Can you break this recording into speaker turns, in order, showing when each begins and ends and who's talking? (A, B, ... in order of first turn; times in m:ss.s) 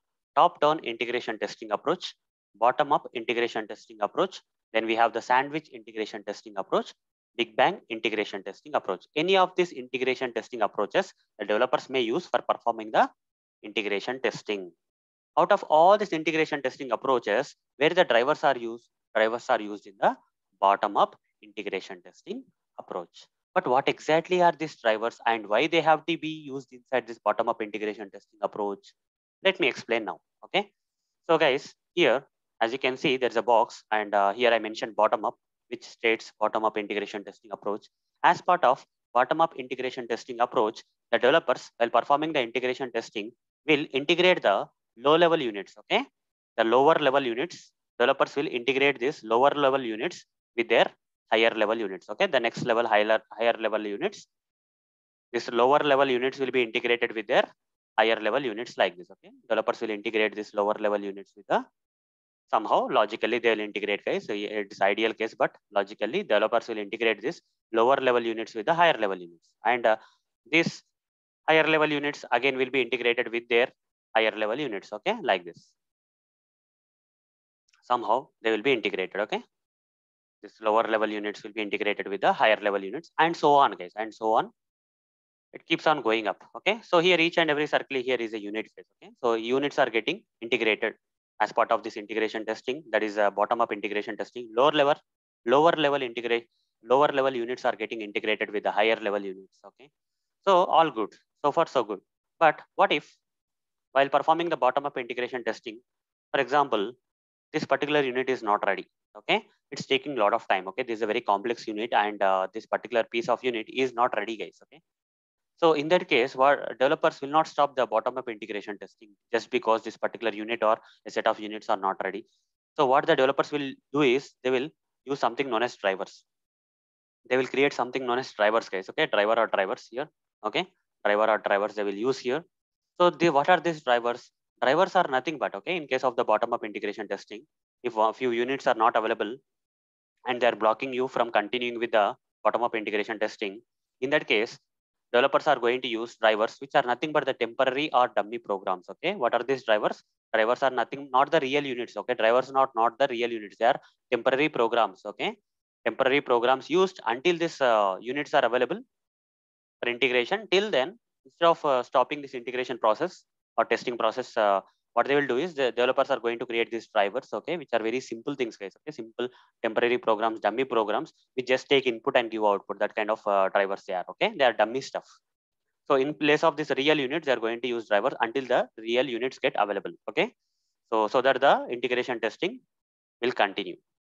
0:00.4-0:13.0 A
0:13.6-0:14.7 A
0:15.4-0:30.7 A
0:31.2-0:46.0 A
0:46.6-0:54.3 A
0:55.3-0:57.4 A
0:58.0-1:01.6 A
1:02.5-1:10.0 A
1:10.5-1:10.8 A
1:11.5-1:15.7 A
1:17.8-1:19.4 A
1:20.4-1:24.5 A
1:25.5-1:39.9 A
1:40.4-1:43.2 A
1:43.9-1:45.8 A
1:46.3-1:46.9 A
1:47.5-1:54.8 A
1:55.6-2:02.2 A
2:02.8-2:06.2 A
2:07.3-2:12.4 A
2:13.0-2:19.4 A
2:20.3-2:24.6 A
2:25.1-2:35.3 A
2:35.8-2:38.8 A
2:39.8-2:55.1 A
2:55.9-3:00.3 A
3:00.9-3:02.6 A
3:03.2-3:03.8 A